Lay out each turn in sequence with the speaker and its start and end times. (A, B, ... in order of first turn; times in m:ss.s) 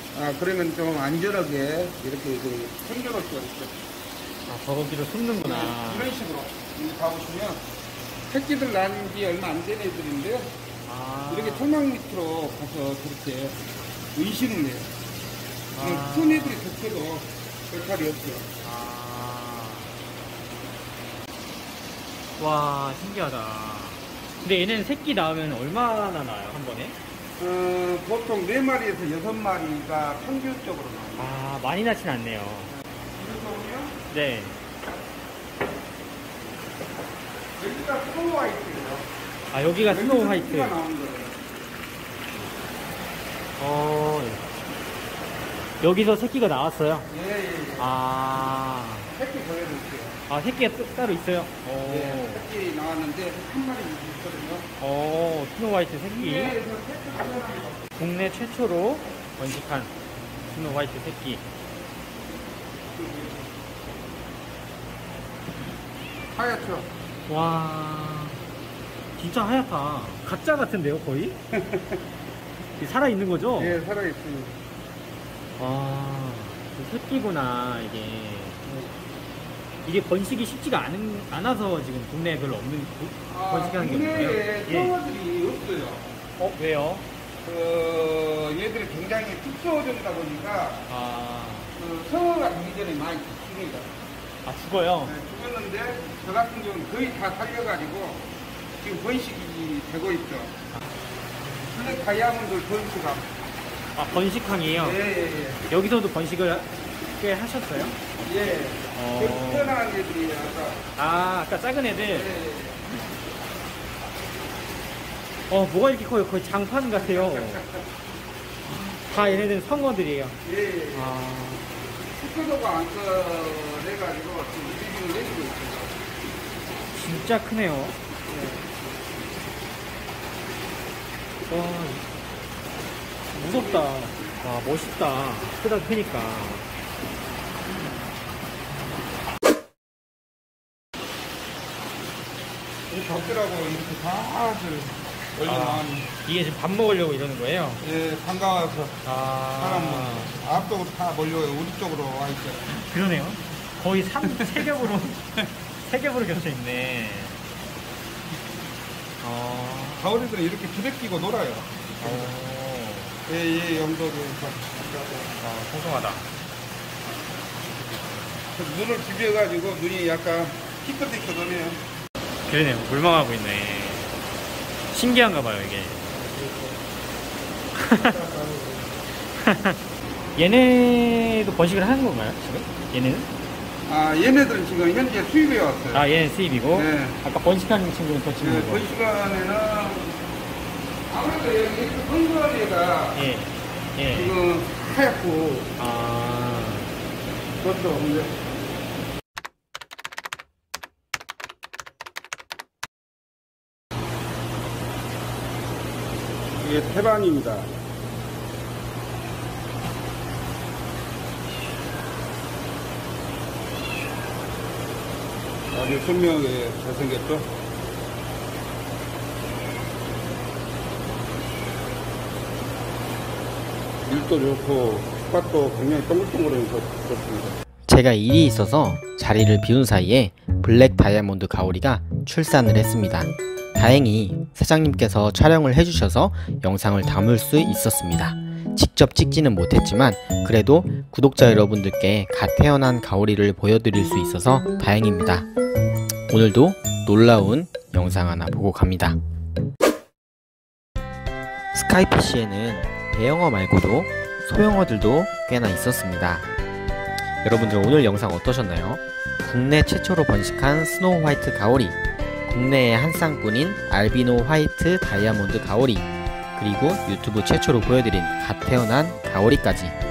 0:00.1-0:03.8 A
0:04.5-0:06.1 B
0:05.4-0:07.6 A
0:08.3-0:10.5 A
0:10.8-0:11.6 B
0:11.3-0:13.6 A
0:14.1-0:14.9 A
0:15.7-0:16.7 B
0:15.8-0:18.5 A
0:18.6-0:19.9 B
0:22.4-0:27.0 B
0:27.4-0:31.3 A
0:31.1-0:32.7 B
0:33.1-0:34.0 A
0:34.1-0:34.6 B
0:37.6-0:39.1 A
0:39.5-0:40.8 B
0:39.8-0:41.4 A
0:43.6-0:44.5 B
0:45.8-0:47.1 B
0:47.1-0:48.0 A
0:47.8-0:49.1 B
0:49.1-0:50.2 A
0:50.3-0:52.5 B
0:51.9-0:54.7 A
0:54.8-0:56.6 B
0:56.1-0:58.0 A
0:58.0-0:59.9 B
1:00.5-1:01.5 B
1:02.9-1:03.6 A
1:06.3-1:06.9 A
1:07.3-1:08.4 B
1:09.2-1:11.4 B
1:11.5-1:12.0 A
1:12.8-1:13.8 B
1:13.6-1:14.6 A
1:15.6-1:18.6 B
1:18.6-1:18.9 A
1:19.8-1:24.9 B
1:23.3-1:26.1 A
1:26.4-1:27.1 B
1:27.4-1:30.9 A
1:30.9-1:31.7 B
1:31.7-1:33.9 A
1:34.4-1:35.2 B
1:35.0-1:38.2 A
1:38.8-1:40.6 A
1:40.7-1:41.7 B
1:41.7-1:43.3 A
1:43.9-1:45.0 B
1:44.8-1:45.6 A
1:45.7-1:48.0 B
1:48.2-1:50.8 A
1:48.9-1:49.8 B
1:51.0-1:52.3 B
1:51.9-1:52.8 A
1:55.5-1:57.6 B
1:57.0-1:57.8 A
1:58.7-2:00.4 B
1:59.0-1:59.6 A
2:00.4-2:01.2 A
2:00.9-2:01.7 B
2:02.1-2:06.0 A
2:06.9-2:08.0 B
2:08.3-2:08.7 A
2:11.5-2:12.1 B
2:13.3-2:16.7 B
2:13.3-2:13.9 A
2:22.9-2:26.1 A
2:25.4-2:27.8 B
2:27.8-2:29.0 A
2:29.0-2:30.3 B
2:29.6-2:32.7 A
2:32.7-2:35.2 B
2:34.2-2:34.6 A
2:35.8-2:37.4 B
2:39.2-2:40.2 B
2:40.0-2:42.3 A
2:42.0-2:43.2 B
2:43.2-2:45.4 A
2:45.4-2:46.3 B
2:47.6-2:48.4 B
2:48.5-2:51.8 A
2:52.4-2:54.2 B
2:54.9-2:56.1 B
2:56.1-2:56.8 A
2:57.7-2:58.1 B
2:57.9-2:59.0 A
2:59.2-2:59.8 B
3:00.4-3:03.3 B
3:03.8-3:06.1 A
3:05.9-3:08.9 B
3:06.7-3:07.2 A
3:08.4-3:10.2 A
3:11.1-3:13.2 A
3:13.1-3:14.4 B
3:14.1-3:15.7 A
3:15.8-3:16.9 B
3:17.6-3:18.4 A
3:26.6-3:27.7 A
3:35.7-3:37.5 A
3:44.0-3:47.6 A
3:47.8-4:05.5 C
4:06.3-4:09.2 C
4:11.7-4:16.5 C
4:17.4-4:30.0 C